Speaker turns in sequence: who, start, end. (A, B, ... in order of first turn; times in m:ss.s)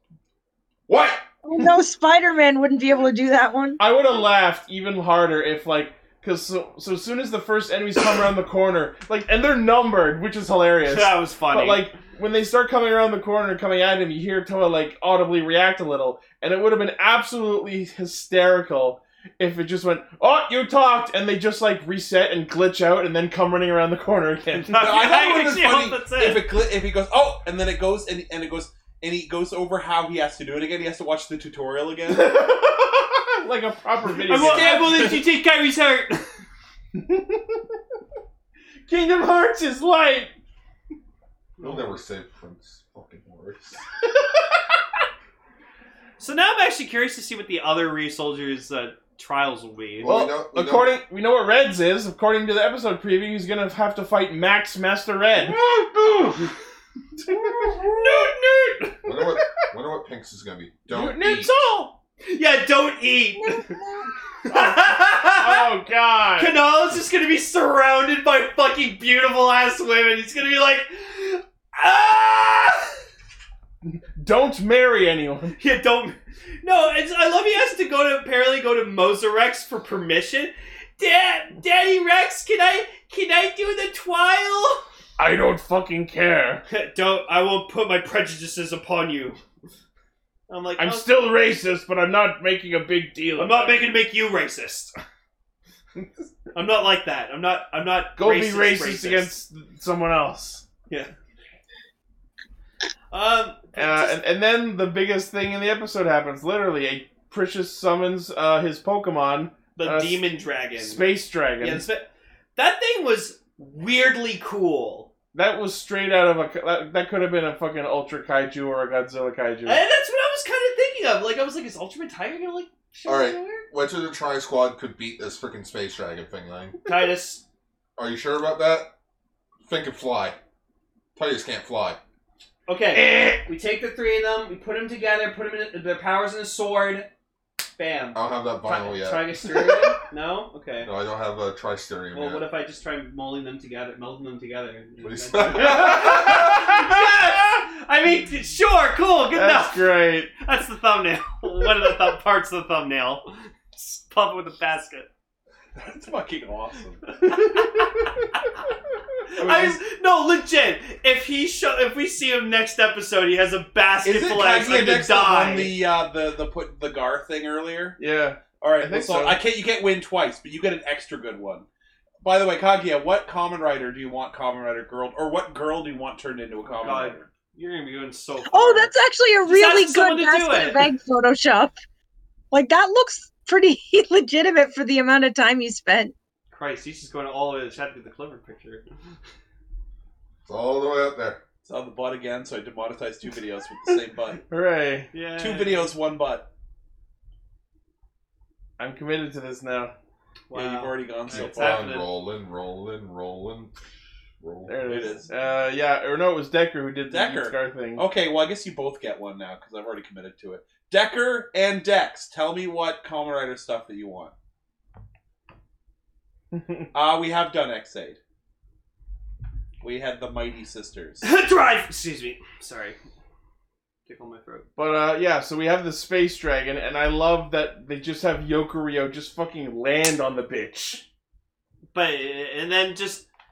0:00.9-0:01.2 A
0:01.4-0:03.8 B
0:03.8-0:24.9 C
0:10.8-0:11.9 D
0:24.6-0:26.4 D
0:24.8-0:32.3 E
0:32.1-0:35.1 C
0:34.3-0:36.3 D
0:34.3-0:35.2 E
0:37.0-0:37.6 C
0:38.9-0:40.3 C
0:41.6-0:42.0 D
0:41.6-0:43.8 A
0:46.2-0:50.1 D
0:50.0-0:50.9 A
0:50.0-0:55.6 C
0:55.4-0:56.5 D
0:57.3-0:59.0 D
0:59.0-1:01.5 A
1:00.9-1:01.9 C
1:02.3-1:03.7 D
1:03.4-1:04.1 B
1:04.4-1:05.7 D
1:05.3-1:06.5 C
1:06.4-1:12.9 D
1:13.8-1:15.6 C
1:15.6-1:24.8 D
1:25.2-1:26.6 C
1:26.7-1:29.4 D
1:30.5-1:31.1 D
1:30.8-1:33.9 C
1:33.4-1:34.9 D
1:36.5-1:39.3 D
1:38.2-1:40.6 C
1:43.1-1:44.2 D
1:43.7-1:51.8 C
1:49.8-1:51.0 D
1:51.6-1:55.1 D
1:55.3-1:59.8 C
1:59.6-2:03.6 D
2:03.0-2:06.8 A
2:06.8-2:07.4 D
2:08.0-2:08.9 A
2:09.6-2:10.4 A
2:11.2-2:12.0 A
2:12.7-2:17.1 D
2:13.0-2:13.4 C
2:17.8-2:20.9 D
2:18.1-2:19.8 A
2:20.8-2:22.4 A
2:22.1-2:35.1 D
2:25.0-2:26.5 A
2:26.3-2:26.6 C
2:29.3-2:30.3 C
2:35.8-2:37.0 E
2:37.2-2:38.4 D
2:37.3-2:37.9 C
2:39.3-2:45.8 D
2:39.4-2:39.7 E
2:44.0-2:48.0 E
2:48.0-2:49.4 C
2:48.6-2:51.7 E
2:52.2-2:57.3 E
2:56.7-2:58.9 D
2:58.5-3:01.7 B
2:59.4-3:00.9 D
3:02.5-3:06.1 B
3:06.5-3:08.8 D
3:10.4-3:11.4 A
3:11.6-3:14.4 E
3:14.5-3:15.1 C
3:15.1-3:15.9 D
3:15.4-3:16.5 E
3:18.8-3:19.9 C
3:20.5-3:22.1 D
3:20.5-3:21.8 E
3:21.3-3:23.7 A
3:24.4-3:25.0 A
3:24.7-3:28.0 C
3:24.8-3:25.3 E
3:27.1-3:34.3 E
3:36.5-3:36.9 C
3:36.9-3:38.2 E
3:39.8-3:41.3 E
3:41.2-3:43.0 D
3:44.1-3:44.6 D
3:44.8-3:51.0 C
3:51.9-3:53.2 D